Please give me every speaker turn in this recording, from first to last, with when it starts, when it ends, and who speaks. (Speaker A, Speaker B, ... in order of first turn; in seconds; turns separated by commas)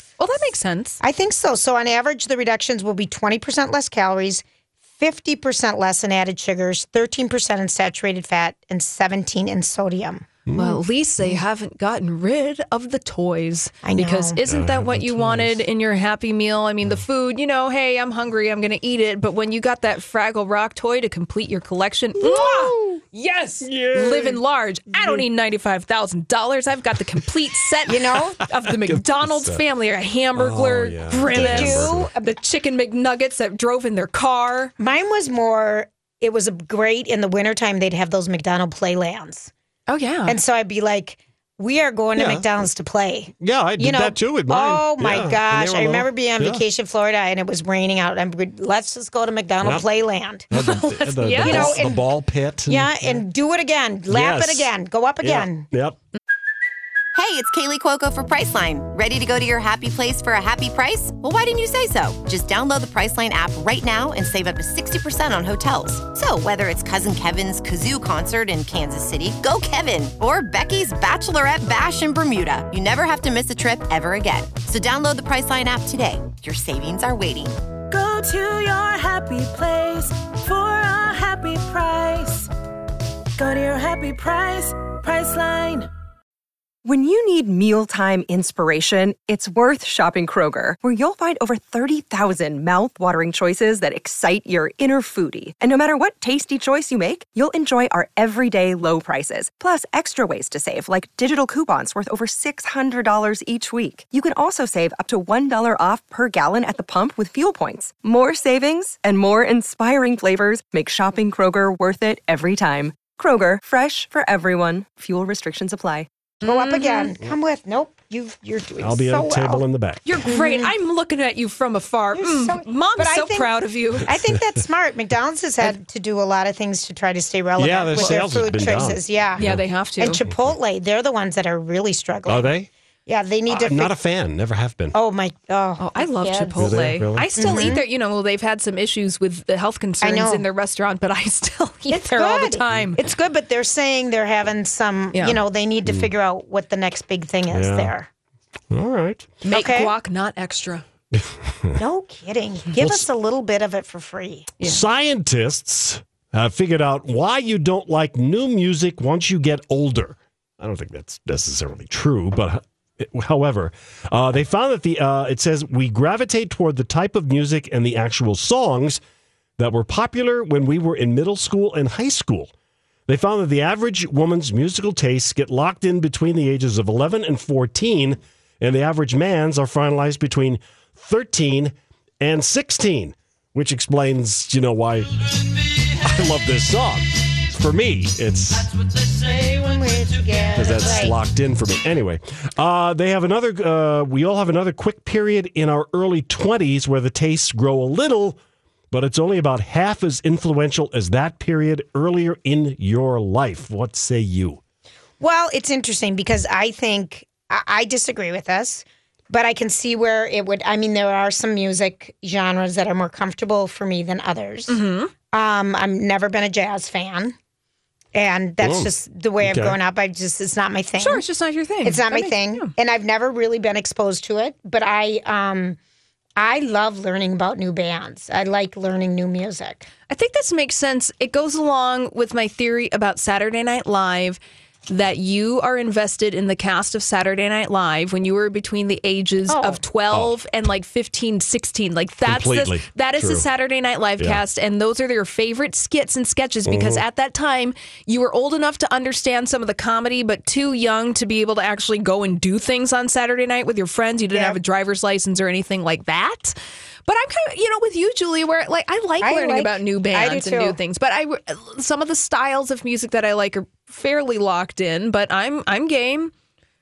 Speaker A: 0.2-1.0, Speaker B: 1.0-4.5, Speaker B: 5.0-10.3, Speaker C: 10.5-10.8, Speaker A: 10.5-34.7, Speaker B: 13.8-14.4, Speaker C: 14.4-15.7, Speaker B: 22.2-23.0, Speaker C: 23.6-24.4, Speaker C: 24.9-25.2, Speaker B: 27.9-28.4, Speaker C: 28.8-29.6, Speaker C: 30.4-32.1, Speaker B: 31.2-32.4, Speaker B: 34.8-39.5, Speaker A: 39.9-40.4, Speaker B: 40.3-50.5, Speaker C: 42.2-42.5, Speaker C: 43.4-46.6, Speaker C: 50.5-53.2, Speaker A: 50.5-51.9, Speaker B: 51.3-52.0, Speaker B: 52.7-55.7, Speaker C: 54.1-54.7, Speaker C: 55.2-56.0, Speaker D: 57.1-77.5, Speaker E: 77.9-82.5, Speaker E: 83.4-85.9, Speaker F: 86.8-116.1, Speaker A: 116.4-117.1, Speaker B: 116.4-119.6, Speaker C: 118.8-120.2, Speaker A: 120.0-124.1, Speaker B: 120.2-120.7, Speaker B: 122.1-132.5, Speaker C: 124.1-124.4, Speaker C: 127.6-129.6, Speaker A: 128.0-130.2, Speaker C: 130.2-130.6, Speaker C: 132.3-132.7, Speaker B: 133.1-133.9, Speaker C: 133.5-134.9, Speaker B: 134.9-136.7, Speaker A: 135.8-143.0, Speaker C: 136.6-137.7, Speaker B: 137.4-137.8, Speaker B: 140.0-140.4, Speaker B: 141.9-148.1, Speaker A: 145.1-145.4, Speaker C: 145.9-146.1, Speaker C: 147.5-147.9, Speaker C: 148.7-149.4, Speaker A: 149.4-150.8, Speaker B: 149.5-149.9, Speaker C: 151.1-151.8, Speaker B: 151.8-154.5, Speaker C: 152.8-153.1, Speaker C: 154.6-169.0, Speaker C: 169.6-172.5, Speaker C: 173.1-185.2, Speaker C: 185.9-188.7, Speaker B: 189.2-191.2, Speaker C: 190.5-198.4, Speaker C: 198.9-204.6, Speaker B: 205.2-214.8, Speaker A: 214.7-215.1, Speaker B: 215.3-217.3, Speaker B: 218.1-221.2, Speaker C: 218.6-218.9, Speaker C: 219.4-219.8, Speaker A: 221.0-222.7, Speaker B: 221.8-225.8, Speaker B: 226.4-229.9, Speaker A: 230.1-256.6, Speaker B: 239.5-239.8, Speaker C: 240.1-240.4, Speaker C: 242.3-243.4, Speaker C: 246.7-247.0, Speaker B: 254.3-254.6, Speaker A: 257.1-266.3, Speaker B: 259.2-260.8